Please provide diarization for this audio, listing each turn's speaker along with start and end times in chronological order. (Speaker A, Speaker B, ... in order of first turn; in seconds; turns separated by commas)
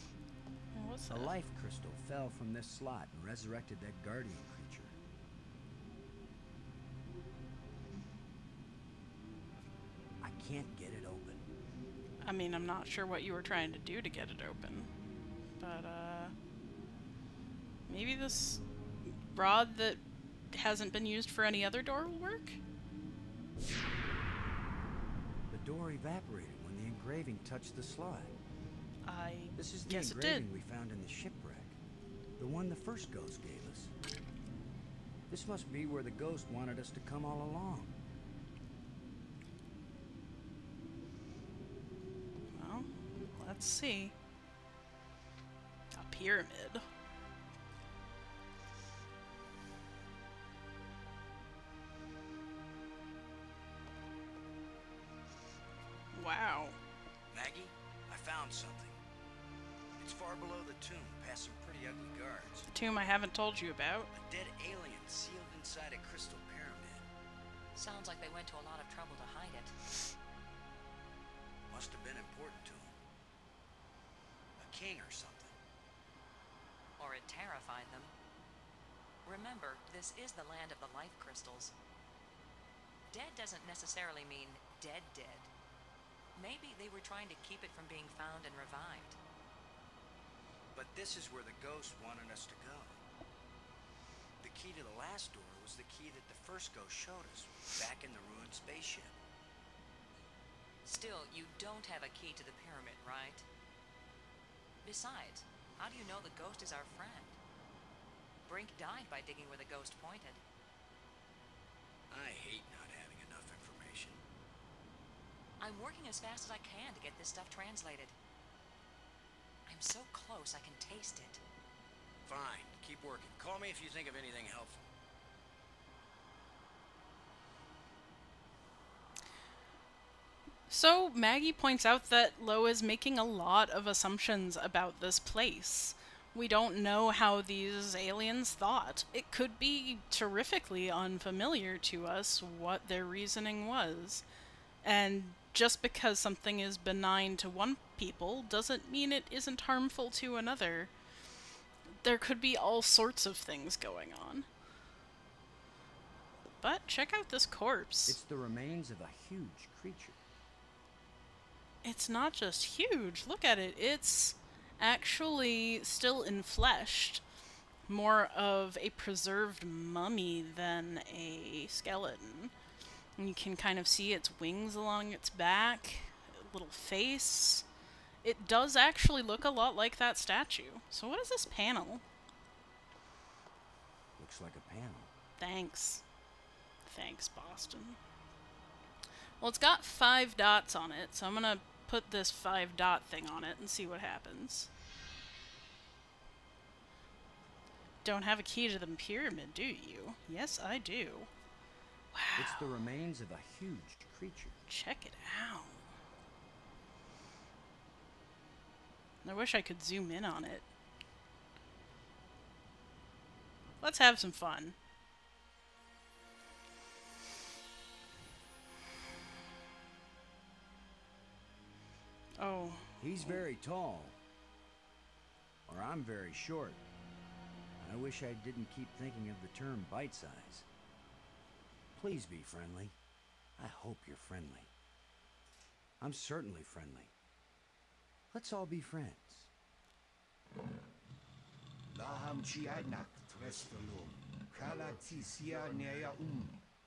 Speaker A: 0.7-1.3, Speaker B: 1.1-4.9, Speaker B: 10.2-11.4, Speaker A: 12.2-14.9, Speaker A: 15.6-16.3, Speaker A: 17.9-18.6, Speaker A: 19.3-22.6, Speaker B: 25.5-28.4, Speaker A: 29.1-30.5, Speaker B: 29.5-31.8, Speaker B: 32.4-33.9, Speaker B: 35.3-38.0, Speaker A: 42.5-44.1, Speaker A: 45.9-46.8, Speaker A: 56.1-56.8, Speaker B: 57.3-59.0, Speaker B: 60.0-62.7, Speaker A: 62.7-64.1, Speaker B: 64.2-67.0, Speaker C: 67.7-69.7, Speaker B: 71.7-73.0, Speaker B: 74.6-75.6, Speaker C: 77.0-78.1, Speaker C: 79.2-81.7, Speaker C: 83.1-85.5, Speaker C: 86.3-89.2, Speaker B: 90.7-93.0, Speaker B: 94.4-99.2, Speaker C: 100.8-103.4, Speaker C: 104.8-107.3, Speaker C: 108.5-110.4, Speaker B: 112.1-114.2, Speaker C: 115.6-118.1, Speaker C: 119.7-121.4, Speaker B: 122.2-124.9, Speaker A: 130.7-144.2, Speaker A: 144.8-150.9, Speaker A: 152.0-154.4, Speaker A: 156.6-158.2, Speaker B: 158.1-160.2, Speaker A: 161.8-167.2, Speaker A: 167.9-172.5, Speaker A: 173.2-177.6, Speaker A: 178.2-182.0, Speaker B: 184.2-185.1, Speaker A: 185.4-186.0, Speaker A: 186.8-188.0, Speaker A: 189.4-194.7, Speaker A: 198.0-201.3, Speaker A: 202.1-202.7, Speaker B: 202.3-204.6, Speaker A: 204.7-205.8, Speaker A: 209.2-210.7, Speaker A: 213.8-214.7, Speaker A: 222.4-223.4, Speaker B: 223.0-224.2, Speaker B: 225.7-226.8, Speaker B: 227.8-230.7, Speaker B: 231.9-232.9, Speaker B: 233.6-234.7, Speaker B: 236.0-237.1, Speaker B: 238.3-239.5, Speaker D: 241.9-246.6